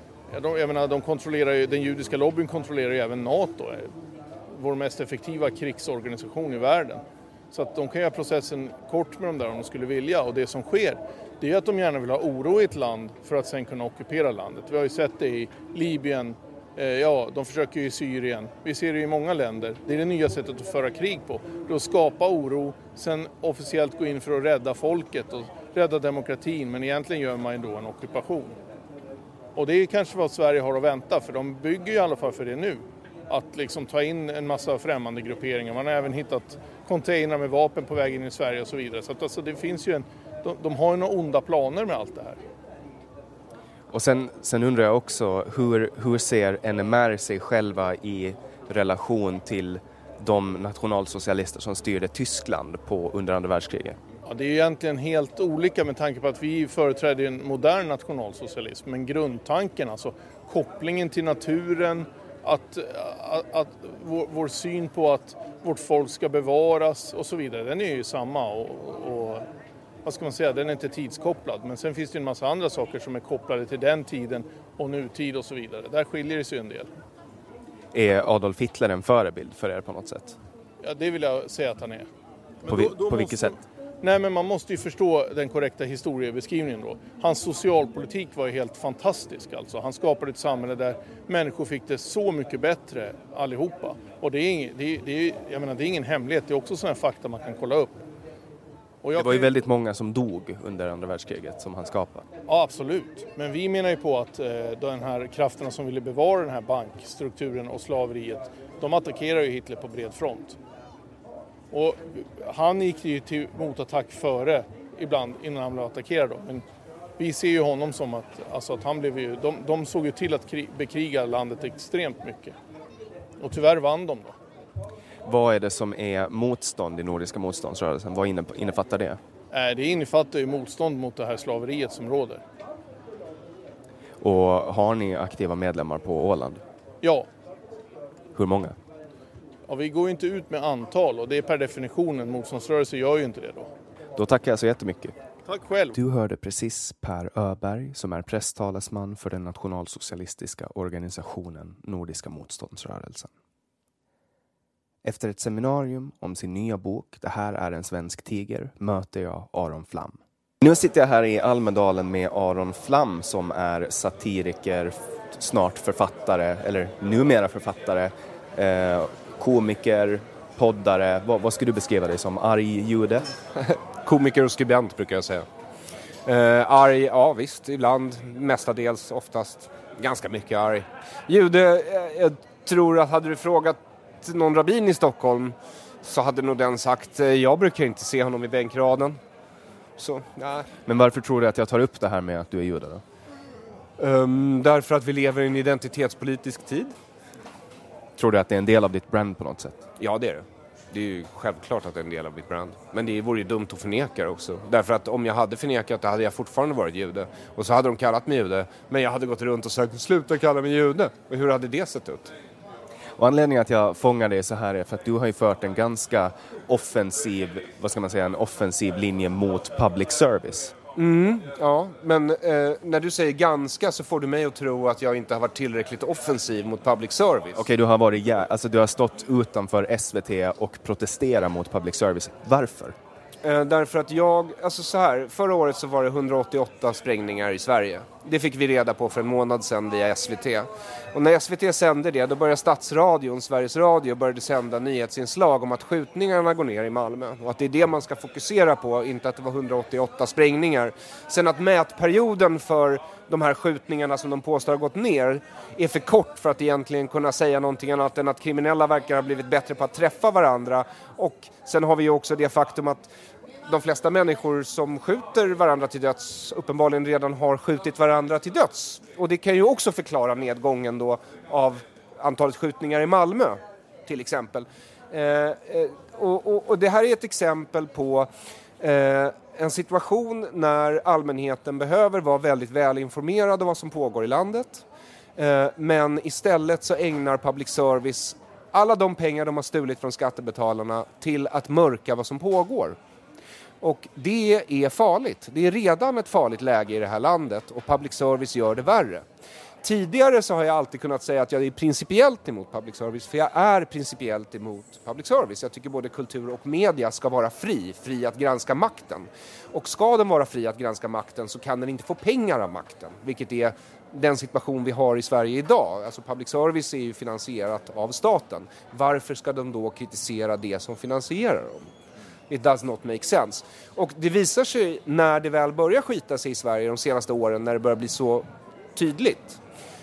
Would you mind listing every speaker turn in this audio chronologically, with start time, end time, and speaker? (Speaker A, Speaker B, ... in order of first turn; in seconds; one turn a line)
Speaker A: 0.3-3.9
Speaker A: 4.5-28.6
Speaker A: 29.6-42.4
Speaker B: 43.9-54.0
Speaker A: 54.3-69.5
Speaker A: 70.0-76.9
Speaker B: 77.9-80.4
Speaker A: 80.8-82.1
Speaker A: 82.7-98.0
Speaker B: 82.7-83.6
Speaker A: 99.0-99.5
Speaker B: 99.2-102.3
Speaker A: 102.5-110.6
Speaker A: 111.7-116.6
Speaker A: 117.2-122.6
Speaker A: 123.4-124.4
Speaker B: 125.2-129.2
Speaker A: 129.5-132.4
Speaker B: 134.2-136.6
Speaker A: 137.0-137.3
Speaker B: 138.3-138.8
Speaker A: 139.7-143.7
Speaker B: 144.2-145.2
Speaker A: 145.5-146.0
Speaker B: 145.9-153.3
Speaker B: 155.0-173.3
Speaker C: 173.6-175.5
Speaker C: 176.3-189.2
Speaker C: 190.0-190.7
Speaker B: 190.9-193.0
Speaker C: 194.0-196.9
Speaker B: 198.2-199.8
Speaker C: 200.0-212.3
Speaker B: 213.2-220.8
Speaker C: 221.0-227.6
Speaker B: 227.6-233.0
Speaker C: 233.4-263.1
Speaker C: 263.7-284.8
Speaker C: 285.4-293.0
Speaker C: 293.8-299.2
Speaker C: 299.8-321.9
Speaker C: 322.5-329.6